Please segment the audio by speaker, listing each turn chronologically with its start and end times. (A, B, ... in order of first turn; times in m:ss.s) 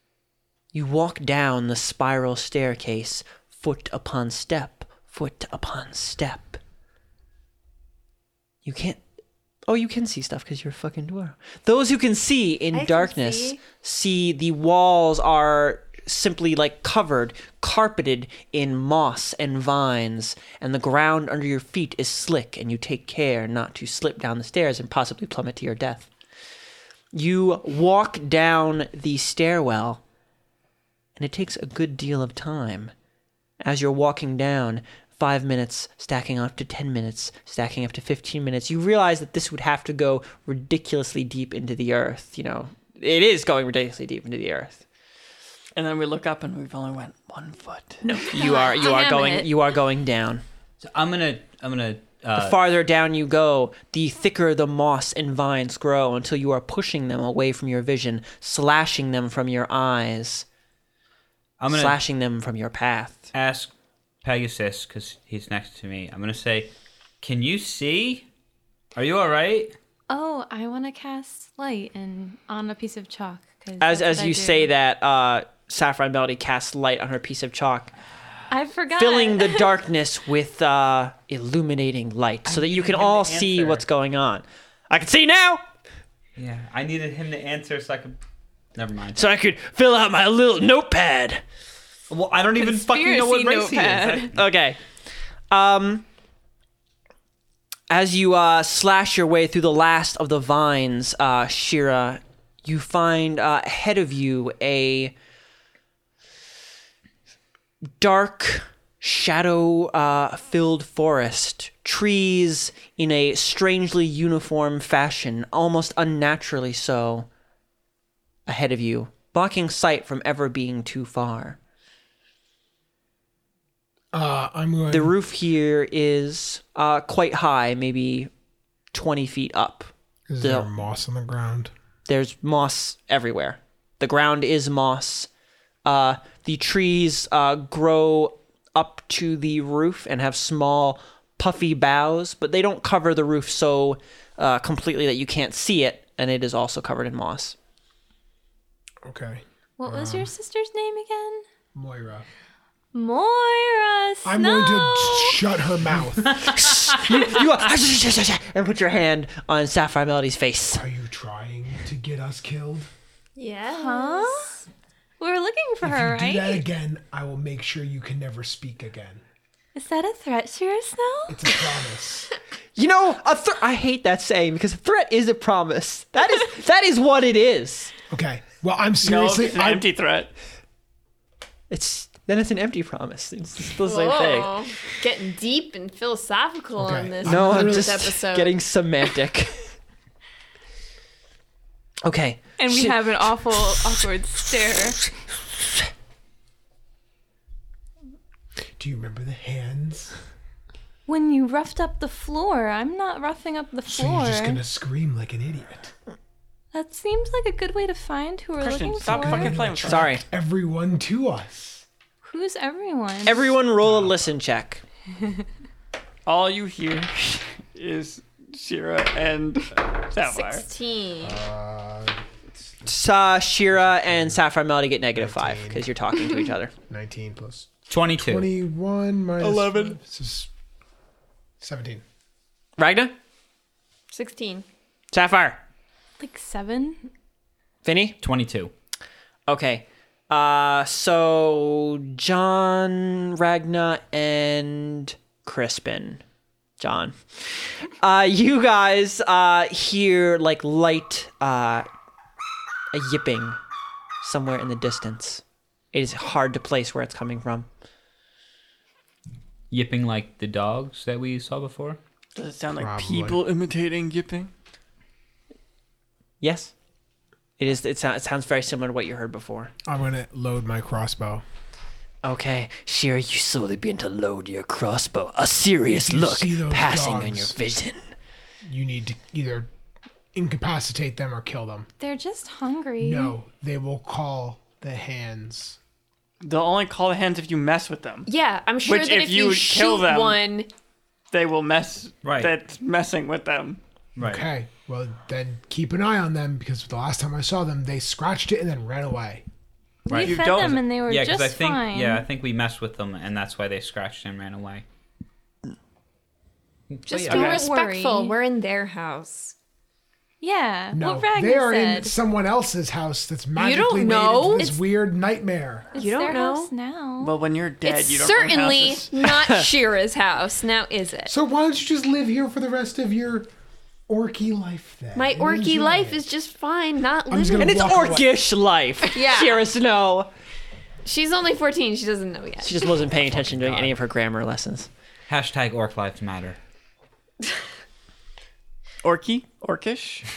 0:00.7-0:06.6 A
0:08.6-0:09.0 A
0:09.7-0:26.1 A
0:12.7-0:13.6 B
0:27.1-0:30.0 A
0:31.2-0:32.9 A
0:33.6-0:44.8 A
0:45.8-0:48.0 C
0:48.0-0:50.4 A
0:48.3-0:49.5 D
0:50.8-0:52.7 E
0:52.4-1:00.4 A
1:01.6-1:02.0 E
1:01.7-1:03.3 A
1:03.3-1:03.7 E
1:04.2-1:06.7 E
1:07.2-1:08.2 E
1:09.0-1:09.7 E
1:10.1-1:14.7 D
1:13.8-1:17.9 A
1:18.5-1:19.7 D
1:18.9-1:25.6 A
1:22.4-1:23.8 E
1:26.4-1:28.2 E
1:28.7-1:29.2 E
1:29.1-1:31.4 A
1:32.1-1:34.4 E
1:32.6-1:34.3 D
1:34.2-1:34.8 A
1:35.5-1:36.0 A
1:37.9-1:45.1 A
1:48.0-1:57.3 A
1:58.4-2:01.6 A
2:04.1-2:05.2 F
2:04.9-2:08.3 A
2:08.9-2:10.7 A
2:10.3-2:11.7 F
2:12.1-2:15.3 A
2:15.8-2:27.5 A
2:29.0-2:30.3 F
2:29.8-2:31.4 D
2:31.7-2:32.2 F
2:32.9-2:35.5 D
2:34.2-2:36.5 F
2:36.4-2:40.8 A
2:40.7-2:42.9 F
2:43.4-2:44.5 B
2:43.7-2:44.6 D
2:45.2-2:46.6 D
2:45.8-2:49.2 F
2:49.7-2:51.7 D
2:51.3-2:52.3 F
2:52.8-2:57.9 A
2:58.1-2:59.9 F
2:59.0-3:00.3 C
3:01.7-3:04.6 A
3:03.8-3:08.6 B
3:06.8-3:08.1 F
3:07.2-3:09.6 A
3:12.0-3:13.0 A
3:12.6-3:15.0 D
3:18.8-3:20.2 F
3:21.1-3:24.6 D
3:23.9-3:25.9 F
3:26.7-3:29.6 D
3:28.6-3:30.1 C
3:29.1-3:31.8 F
3:29.8-3:30.2 A
3:32.2-3:33.5 D
3:33.2-3:34.8 A
3:33.8-3:34.2 F
3:36.2-3:40.6 C
3:40.2-3:41.4 B
3:41.2-3:42.2 F
3:42.8-3:46.7 A
3:43.7-3:44.4 F
3:45.1-3:45.9 F
3:46.9-3:50.5 F
3:47.9-3:48.5 E
3:49.4-3:50.0 C
3:51.6-3:52.0 F
3:52.8-3:53.1 A
3:54.1-3:54.6 B
3:55.1-3:55.6 A
3:56.2-3:57.1 D
3:57.8-3:58.2 A
3:58.2-3:58.7 E
3:59.5-4:06.2 A
4:06.8-4:11.8 A
4:12.9-4:13.6 A
4:14.2-4:15.4 A
4:15.9-4:17.7 A
4:19.7-4:22.0 E
4:22.4-4:24.5 C
4:22.8-4:23.4 F
4:26.4-4:26.7 A
4:27.6-4:29.7 A
4:29.8-4:31.4 F
4:32.2-4:38.1 A
4:35.9-4:37.7 F
4:38.6-4:39.7 F
4:40.3-4:41.9 F
4:42.0-4:43.3 D
4:43.0-4:45.8 F
4:46.4-4:48.3 C
4:48.2-4:50.7 B
4:48.8-4:50.4 C
4:51.3-4:53.8 C
4:52.2-4:52.5 E
4:54.2-4:54.5 E
4:54.2-4:59.4 F
5:00.1-5:04.8 E
5:00.1-5:02.3 D
5:00.1-5:00.9 C
5:06.9-5:07.6 E
5:07.1-5:09.5 B
5:07.2-5:08.4 D
5:10.4-5:12.1 D
5:10.9-5:15.9 F
5:13.6-5:14.8 B
5:15.9-5:16.7 B
5:15.9-5:17.3 D
5:17.2-5:19.1 C
5:17.8-5:21.3 B
5:19.3-5:19.7 A
5:21.2-5:23.5 F
5:24.1-5:26.2 F
5:25.1-5:28.0 B
5:27.3-5:28.3 F
5:27.6-5:30.3 A
5:29.0-5:29.6 B
5:31.0-5:33.0 B
5:32.6-5:34.9 A
5:33.4-5:33.9 F
5:35.3-5:36.6 E
5:39.0-5:40.2 C